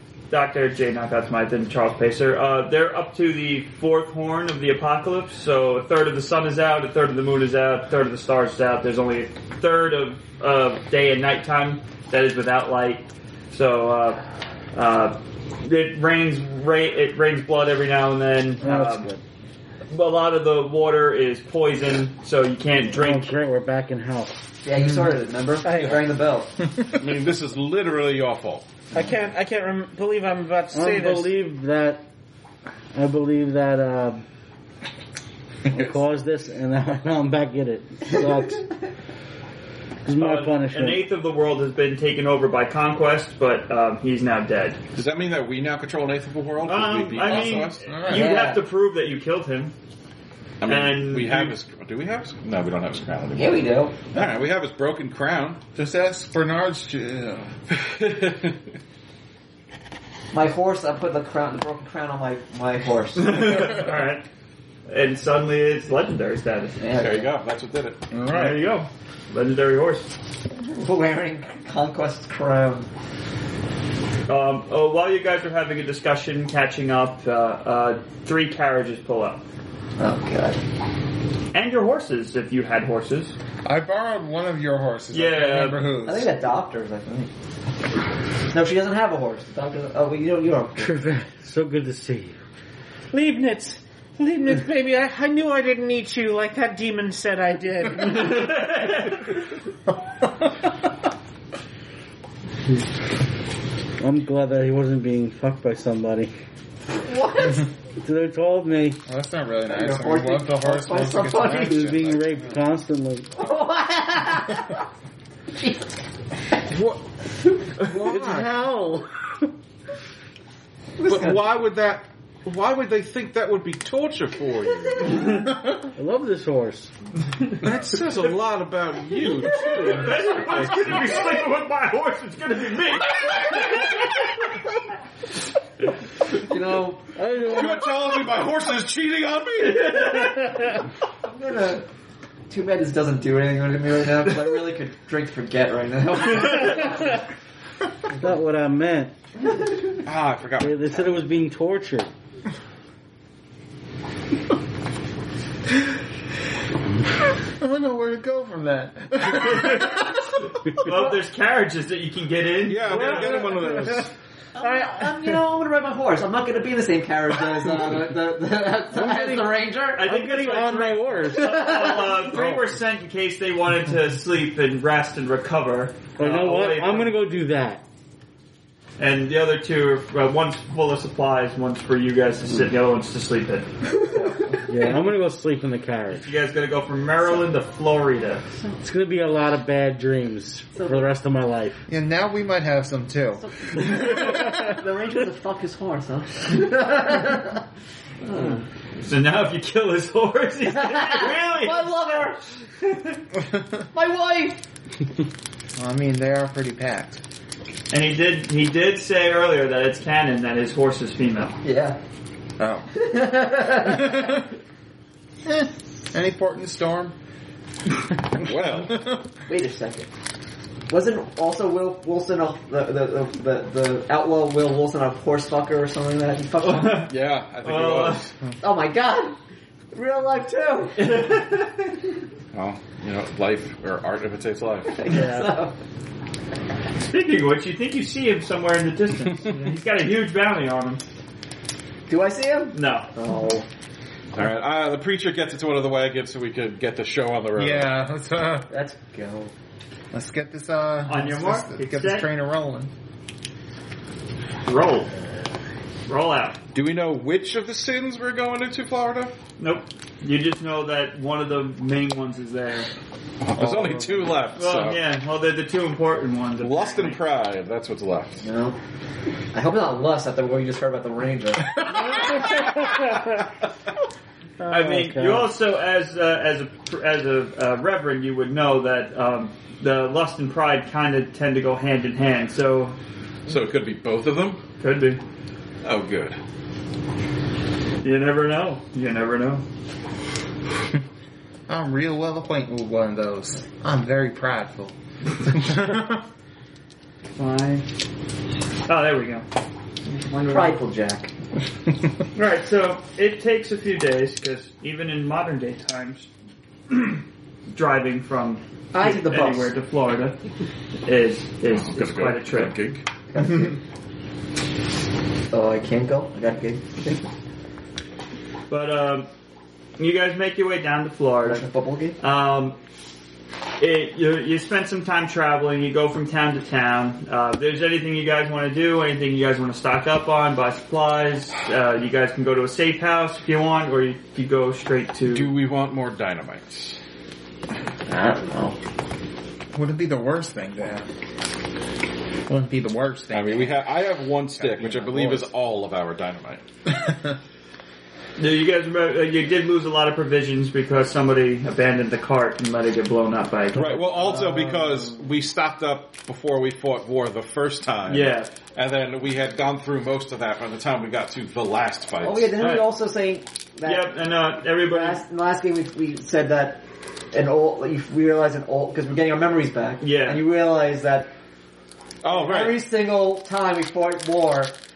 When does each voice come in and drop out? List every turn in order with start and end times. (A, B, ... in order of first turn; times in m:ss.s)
0:00.3-0:14.2 A
0:14.7-0:19.1 A
0:18.6-0:19.2 B
0:19.9-0:23.4 A
0:22.9-0:24.4 B
0:24.6-0:26.6 C
0:25.6-0:26.0 D
0:27.0-0:28.6 E
0:28.9-0:31.3 D
0:30.7-0:32.0 B
0:32.9-0:34.2 B
0:35.6-0:38.7 B
0:40.0-0:41.0 B
0:40.1-0:44.8 A
0:45.0-0:48.0 E
0:46.6-0:49.7 A
0:47.8-0:48.5 F
0:48.0-0:48.6 C
0:50.6-0:55.6 E
0:50.6-0:51.5 A
0:53.3-0:54.0 C
0:55.7-0:57.5 F
0:57.7-0:58.7 E
1:00.3-1:03.8 C
1:03.1-1:04.2 A
1:04.9-1:06.8 A
1:06.8-1:07.3 C
1:06.9-1:08.0 E
1:08.1-1:08.6 F
1:08.3-1:10.1 A
1:10.6-1:12.9 C
1:14.3-1:19.4 A
1:20.0-1:20.6 C
1:21.5-1:23.3 A
1:23.6-1:26.3 F
1:25.1-1:25.9 A
1:26.0-1:27.3 C
1:28.5-1:31.0 C
1:30.8-1:32.4 B
1:33.1-1:38.4 D
1:38.0-1:39.3 A
1:44.0-1:46.3 B
1:47.0-1:47.7 C
1:48.0-1:49.0 B
1:49.1-1:52.5 F
1:49.7-1:51.9 C
1:51.5-1:53.3 B
1:53.4-1:54.8 C
1:55.5-1:55.9 C
1:57.9-1:59.2 B
1:58.0-1:58.4 F
2:01.0-2:01.4 C
2:01.0-2:05.2 E
2:05.8-2:06.9 B
2:07.6-2:11.2 E
2:09.4-2:14.0 A
2:13.2-2:13.6 E
2:16.3-2:17.1 C
2:17.2-2:18.2 B
2:17.4-2:20.3 E
2:19.6-2:20.4 A
2:21.2-2:21.8 C
2:22.5-2:27.2 C
2:28.1-2:29.1 B
2:30.0-2:31.1 E
2:30.6-2:32.1 B
2:37.6-2:40.2 F
2:39.3-2:43.4 A
2:42.6-2:44.1 E
2:42.9-2:44.1 D
2:44.5-2:50.1 C
2:44.6-2:45.3 D
2:48.9-2:52.6 B
2:50.0-2:57.1 A
2:51.3-2:52.5 C
2:56.2-2:57.8 B
2:59.0-3:03.7 A
3:04.0-3:04.6 C
3:04.6-3:06.2 B
3:06.1-3:08.4 A
3:08.8-3:11.8 B
3:11.9-3:13.4 F
3:13.4-3:17.6 C
3:18.2-3:18.6 C
3:19.0-3:22.2 A
3:20.8-3:22.4 C
3:22.8-3:23.2 A
3:23.8-3:24.6 C
3:25.7-3:27.2 F
3:27.9-3:31.6 A
3:31.6-3:32.0 C
3:32.6-3:32.9 F
3:32.9-3:34.4 C
3:33.8-3:34.4 F
3:35.4-3:37.1 F
3:38.4-3:39.1 E
3:39.4-3:40.1 C
3:40.9-3:47.1 C
3:46.6-3:48.3 A
3:47.1-3:48.3 E
3:48.6-3:49.4 C
3:49.9-3:51.6 C
3:51.0-3:51.7 A
3:52.5-3:55.0 E
3:54.9-3:55.7 C
3:57.1-4:01.0 A
4:02.1-4:03.6 C
4:02.7-4:03.1 A
4:04.3-4:08.0 E
4:07.6-4:08.7 F
4:08.7-4:09.5 C
4:10.1-4:12.9 F
4:11.0-4:12.3 A
4:14.6-4:15.1 A
4:16.1-4:16.6 A
4:16.7-4:19.4 E
4:19.6-4:22.9 A
4:23.4-4:25.0 E
4:23.6-4:24.4 F
4:24.6-4:27.2 A
4:26.6-4:28.4 E
4:28.4-4:28.8 C
4:29.5-4:32.2 C
4:34.6-4:35.4 D
4:34.7-4:43.0 A
4:34.7-4:35.4 B
4:43.5-4:44.6 E
4:44.8-4:45.2 A
4:45.8-4:46.4 E
4:48.0-4:49.6 A
4:51.7-4:56.2 F
4:57.4-4:57.8 A
4:58.8-4:59.4 A
5:00.0-5:00.8 A
5:00.5-5:01.3 C
5:02.3-5:06.3 A
5:06.9-5:10.4 A
5:08.9-5:09.7 C
5:11.0-5:12.8 A
5:11.7-5:13.0 E
5:13.3-5:13.8 C
5:13.4-5:13.7 A
5:15.5-5:17.3 C
5:18.7-5:19.3 A
5:20.0-5:21.6 A
5:21.4-5:22.2 C
5:22.2-5:22.8 A
5:23.8-5:35.5 A
5:35.3-5:37.0 E
5:38.1-5:38.8 C
5:39.7-5:41.0 F
5:42.5-5:43.8 F
5:43.3-5:46.6 E
5:44.6-5:45.5 F
5:46.9-5:47.3 F
5:48.4-5:54.0 A
5:53.7-6:02.6 E
5:54.2-5:54.9 C
5:58.1-5:58.5 A
6:02.2-6:04.1 C
6:02.6-6:02.9 A
6:03.8-6:05.2 A
6:04.8-6:11.3 C
6:10.0-6:10.4 A
6:12.2-6:12.8 E
6:12.2-6:14.7 C